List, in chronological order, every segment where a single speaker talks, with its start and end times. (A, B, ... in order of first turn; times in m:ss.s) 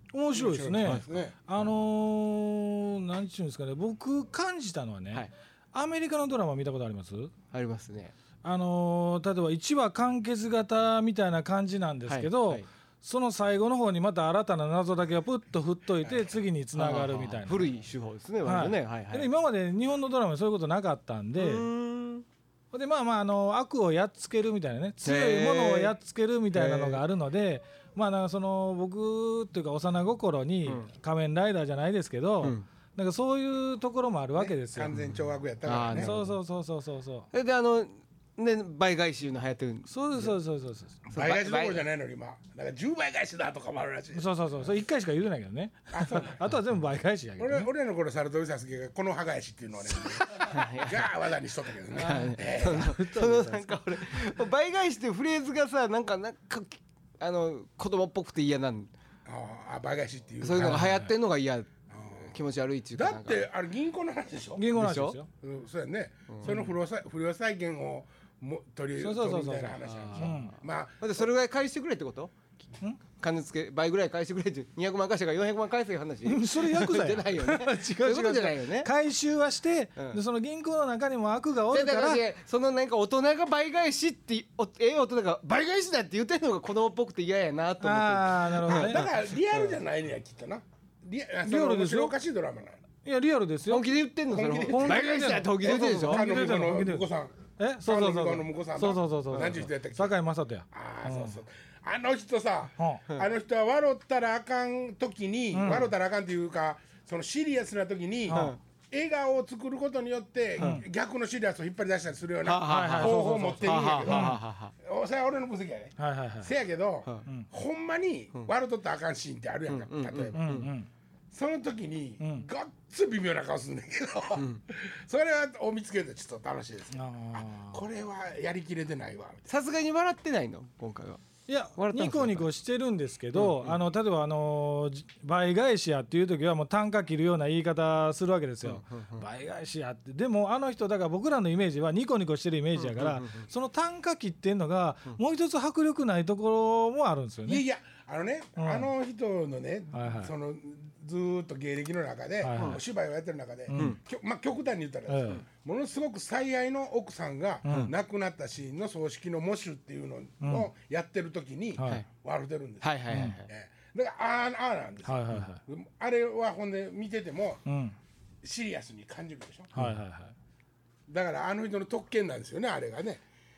0:00.1-0:07.3 A
0:00.3-0:01.4 B
0:00.8-0:01.1 C
0:07.5-0:08.1 C
0:08.4-0:17.7 A
0:12.0-0:12.7 C
0:16.0-0:16.3 B
0:16.7-0:19.3 C
0:18.4-0:21.7 A
0:21.3-0:22.2 C
0:22.7-0:35.0 A
0:25.0-0:25.9 C
0:26.5-0:27.0 C
0:30.6-0:30.9 C
0:32.4-0:32.6 C
0:34.3-0:36.2 B
0:35.6-0:36.2 C
0:35.9-0:37.3 A
0:37.3-0:40.3 C
0:39.9-0:41.0 A
0:41.1-0:44.4 B
0:41.1-0:41.8 C
0:44.1-0:47.7 A
0:45.9-0:46.4 B
0:47.4-0:53.1 B
0:50.4-0:51.1 C
0:51.9-0:58.9 C
0:52.0-0:53.8 A
0:59.2-1:01.0 B
1:00.4-1:03.4 C
1:00.5-1:01.1 A
1:01.9-1:02.4 B
1:02.9-1:04.8 B
1:04.5-1:05.3 A
1:04.7-1:05.2 C
1:05.4-1:11.2 B
1:06.3-1:06.6 C
1:09.0-1:10.5 A
1:09.8-1:12.3 C
1:13.1-1:18.9 C
1:16.2-1:22.2 A
1:20.0-1:20.2 C
1:21.7-1:29.8 C
1:27.8-1:29.1 A
1:28.7-1:32.8 B
1:31.4-1:32.1 A
1:33.0-1:41.4 A
1:33.7-1:36.4 C
1:34.3-1:40.1 B
1:40.7-2:00.6 B
1:42.8-1:43.0 A
1:45.5-1:45.9 A
1:48.3-1:48.6 C
1:48.3-1:48.6 A
1:50.6-1:50.8 C
1:50.6-1:50.8 A
1:52.4-1:54.7 C
1:52.6-1:54.4 A
1:56.0-1:56.5 A
1:59.7-2:00.7 C
2:00.4-2:00.9 A
2:01.3-2:09.5 B
2:02.2-2:02.4 A
2:04.4-2:04.6 C
2:06.9-2:07.8 A
2:09.5-2:11.2 C
2:11.5-2:27.6 A
2:11.8-2:12.5 C
2:13.3-2:13.8 C
2:18.6-2:19.3 C
2:22.8-2:23.5 C
2:27.4-2:47.6 B
2:28.6-2:28.9 A
2:29.9-2:30.3 A
2:32.4-2:32.8 A
2:32.5-2:32.8 C
2:33.7-2:34.0 A
2:33.7-2:34.0 C
2:35.1-2:35.4 A
2:37.6-2:37.9 A
2:40.4-2:40.7 A
2:41.8-2:42.0 A
2:42.8-2:43.5 C
2:43.1-2:43.4 A
2:45.0-2:45.6 A
2:47.6-2:48.0 A
2:48.4-2:49.7 B
2:49.7-2:50.3 A
2:51.1-2:53.2 B